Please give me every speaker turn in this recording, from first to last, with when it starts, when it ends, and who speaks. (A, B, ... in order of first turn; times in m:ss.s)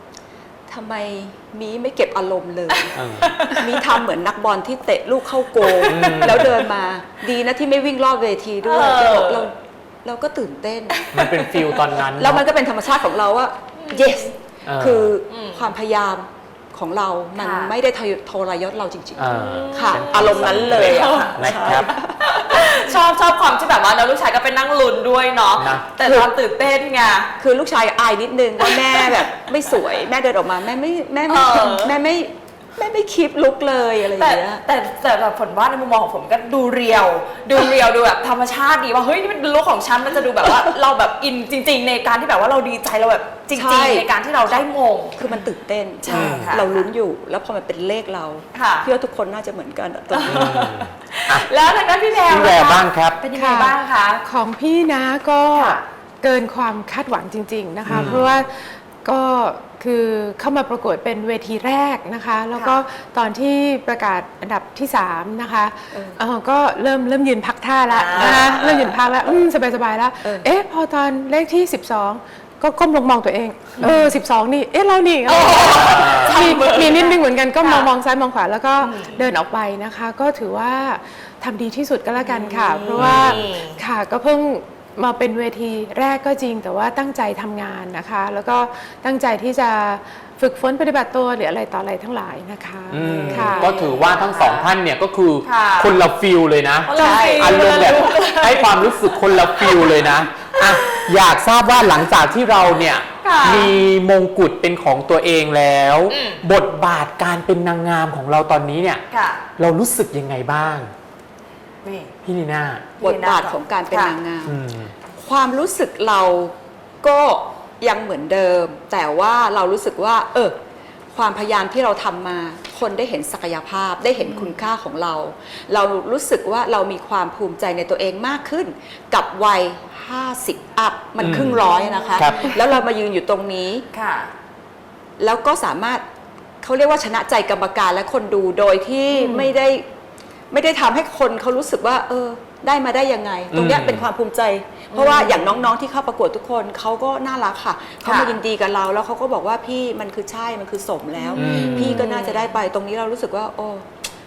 0:00.7-0:11.0 A
0:02.9-0:03.4 B
0:03.2-0:04.0 C
0:05.6-0:06.5 C
0:05.9-0:06.6 B
0:08.6-0:09.5 C
0:11.0-0:11.9 C
0:11.1-0:12.5 B
0:12.2-0:23.0 A
0:13.8-0:14.2 C
0:14.7-0:15.2 B
0:15.3-0:15.7 C
0:17.4-0:17.7 C
0:19.2-0:21.9 B
0:19.2-0:27.3 C
0:25.6-0:25.9 B
0:26.0-0:26.3 A
0:27.4-0:34.6 A
0:28.6-0:29.3 C
0:31.3-0:32.0 C
0:34.2-0:45.3 C
0:43.5-0:44.1 A
0:45.2-0:50.5 A
0:46.0-0:46.9 C
0:46.1-0:46.6 B
0:48.5-0:48.9 C
0:50.1-0:54.2 C
0:50.3-0:51.5 B
0:52.3-0:53.2 B
0:53.4-1:33.7 D
0:55.6-0:55.8 C
0:57.9-0:58.2 B
0:57.9-0:58.3 C
1:05.9-1:06.2 A
1:07.9-1:08.7 C
1:08.1-1:09.0 A
1:15.3-1:17.9 C
1:15.7-1:16.4 B
1:16.4-1:16.9 A
1:18.8-1:19.2 C
1:22.2-1:23.8 C
1:23.0-1:23.4 B
1:32.9-1:49.0 B
1:33.0-1:34.7 C
1:35.4-1:36.0 C
1:36.9-1:41.2 C
1:37.0-1:37.8 D
1:43.2-1:43.7 C
1:46.1-1:46.4 C
1:49.1-1:49.4 C
1:49.6-1:50.9 B
1:51.8-1:52.1 C
1:52.2-1:52.9 B
1:53.0-1:54.2 C
1:53.0-1:54.6 A
1:54.4-1:54.9 B
1:55.1-2:00.6 A
2:01.1-2:13.8 A
2:04.2-2:04.6 C
2:11.2-2:11.6 B
2:11.3-2:12.7 C
2:12.2-2:12.5 B
2:13.9-2:14.3 C
2:15.2-2:16.0 A
2:16.6-2:19.9 A
2:19.1-2:19.5 C
2:20.5-2:33.9 A
2:23.5-2:24.1 B
2:24.9-2:25.6 C
2:28.0-2:28.4 C
2:31.2-2:32.6 C
2:31.3-2:32.1 B